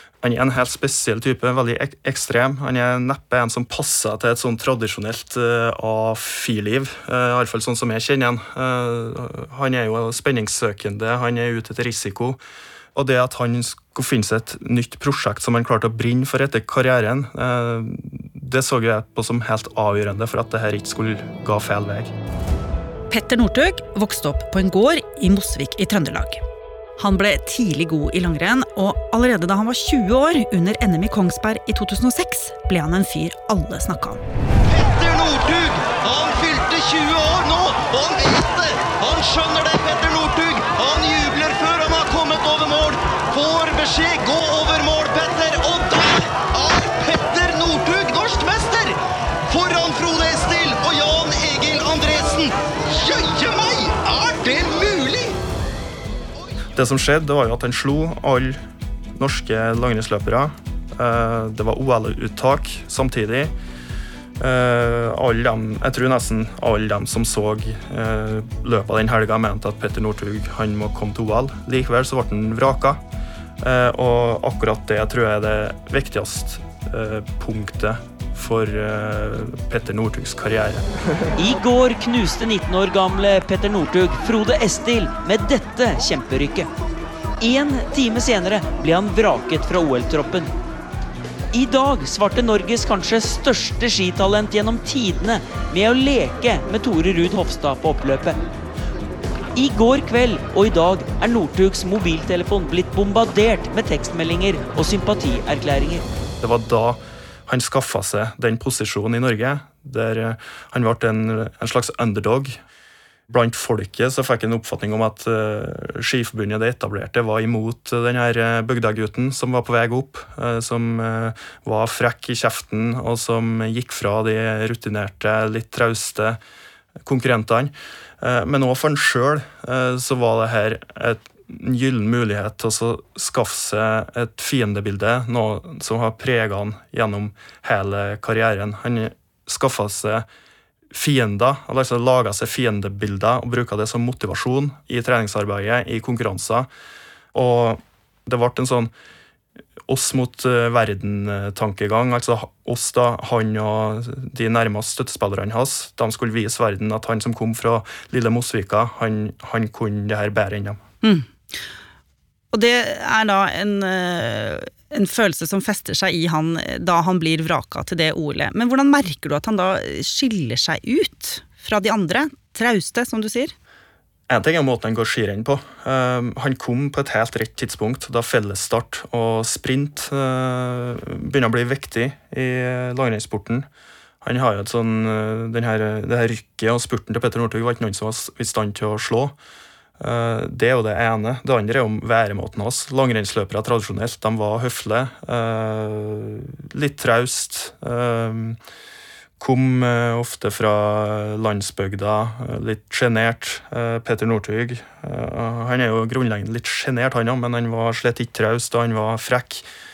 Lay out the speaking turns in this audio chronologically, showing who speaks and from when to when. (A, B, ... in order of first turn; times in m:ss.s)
0:00.2-0:12.4 A
0:13.0-0:22.1 A
0:23.1-0:26.4 B
0:27.0-0:34.2 B
0:34.7-0:49.0 C
0:49.5-0:55.4 C
0:56.7-0:58.6 A
0:59.2-1:03.5 A
1:04.4-1:13.0 A
1:13.6-1:20.9 A
1:21.4-1:26.7 D
1:27.4-1:30.5 D
1:31.5-1:38.4 D
1:39.6-1:46.1 D
1:46.4-1:52.6 A
1:53.3-2:06.4 A
2:07.0-2:20.3 A
2:20.9-2:26.7 A
2:27.3-2:28.9 A
2:29.9-2:40.8 A
2:41.0-2:41.3 B
2:42.5-2:53.5 B
2:54.3-3:03.7 A
3:04.2-3:09.4 A
3:10.0-3:18.6 A
3:19.4-3:29.7 A